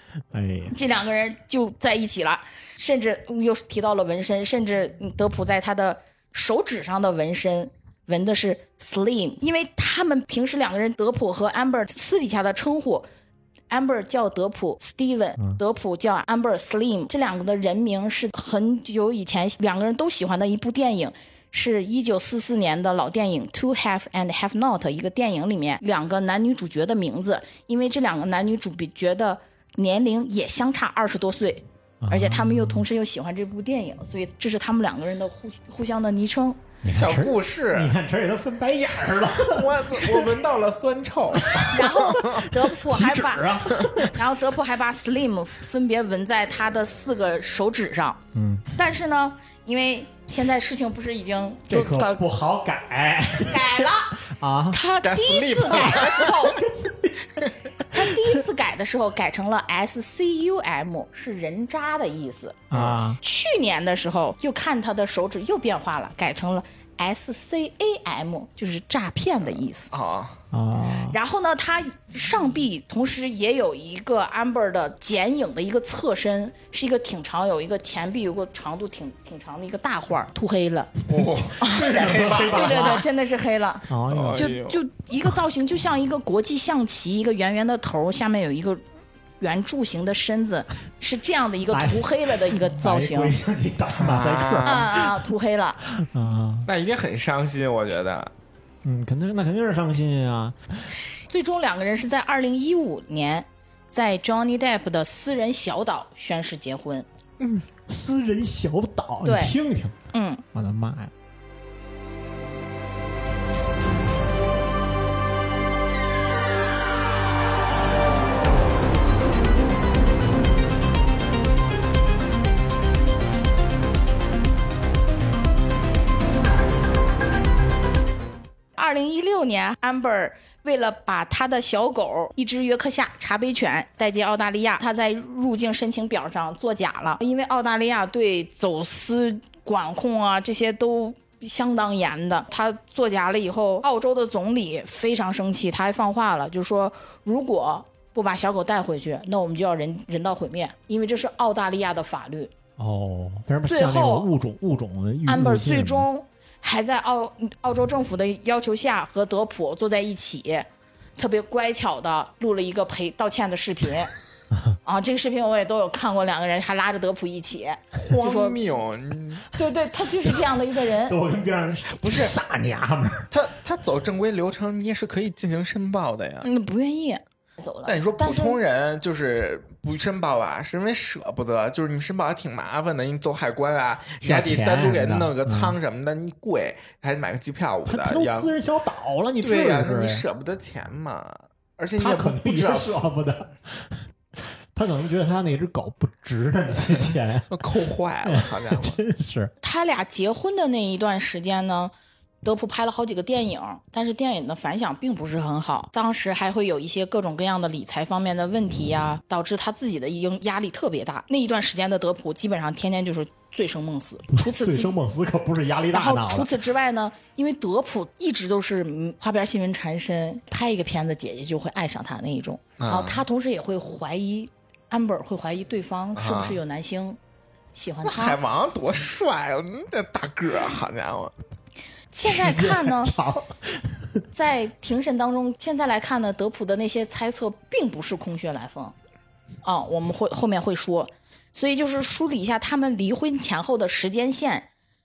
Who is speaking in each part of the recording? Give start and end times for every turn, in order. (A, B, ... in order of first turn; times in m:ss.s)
0:00.3-0:00.8 A
0:00.7-0:13.1 B
0:13.7-0:36.6 B
0:32.0-0:32.8 A
0:36.8-0:40.3 A
0:36.9-0:37.9 C
0:39.4-0:42.5 C
0:41.4-0:41.8 A
0:41.7-0:48.2 B
0:42.5-0:44.2 A
0:48.3-0:48.7 A
0:48.7-0:52.2 B
0:51.7-0:54.8 A
0:53.5-0:54.2 B
0:54.7-0:56.6 B
0:55.0-0:56.4 C
0:55.7-0:57.4 A
0:57.9-1:02.6 B
1:02.7-1:03.2 A
1:02.7-1:03.0 C
1:03.2-1:09.9 B
1:09.9-1:10.4 C
1:10.5-1:11.2 A
1:11.1-1:20.9 B
1:21.1-1:23.0 C
1:21.2-1:23.1 A
1:22.5-1:28.8 B
1:23.9-1:24.5 A
1:24.1-1:24.8 C
1:29.4-1:33.4 B
1:31.7-1:35.1 A
1:34.0-1:34.9 C
1:34.7-1:35.8 B
1:36.0-1:36.7 A
1:36.7-1:38.3 C
1:38.8-1:40.6 A
1:41.3-1:47.1 B
1:47.4-1:50.0 A
1:49.2-1:49.6 B
1:50.1-1:50.4 B
1:50.5-1:51.1 A
2:08.8-2:32.5 B
2:32.8-2:36.1 A
2:33.7-2:34.3 B
2:35.3-2:44.1 B
2:44.8-2:48.6 B
2:47.9-2:49.5 C
2:49.5-2:51.2 B
2:50.3-2:53.3 A
2:52.0-2:52.3 C
2:53.3-2:56.5 C
2:56.4-2:58.6 B
2:57.9-3:08.5 C
3:04.2-3:05.8 A
3:07.9-3:10.3 A
3:09.4-3:13.0 C
3:12.0-3:17.7 A
3:17.5-3:19.0 C
3:18.2-3:19.5 A
3:19.6-3:21.9 B
3:22.4-3:34.9 B
3:34.3-3:36.5 A
3:35.9-3:47.2 B
3:42.8-3:43.2 C
3:46.2-3:46.6 C
3:47.8-3:48.4 B
3:48.0-3:51.3 C
3:52.1-3:53.1 B
3:52.2-3:54.2 A
3:54.3-3:59.0 B
3:59.6-4:04.7 B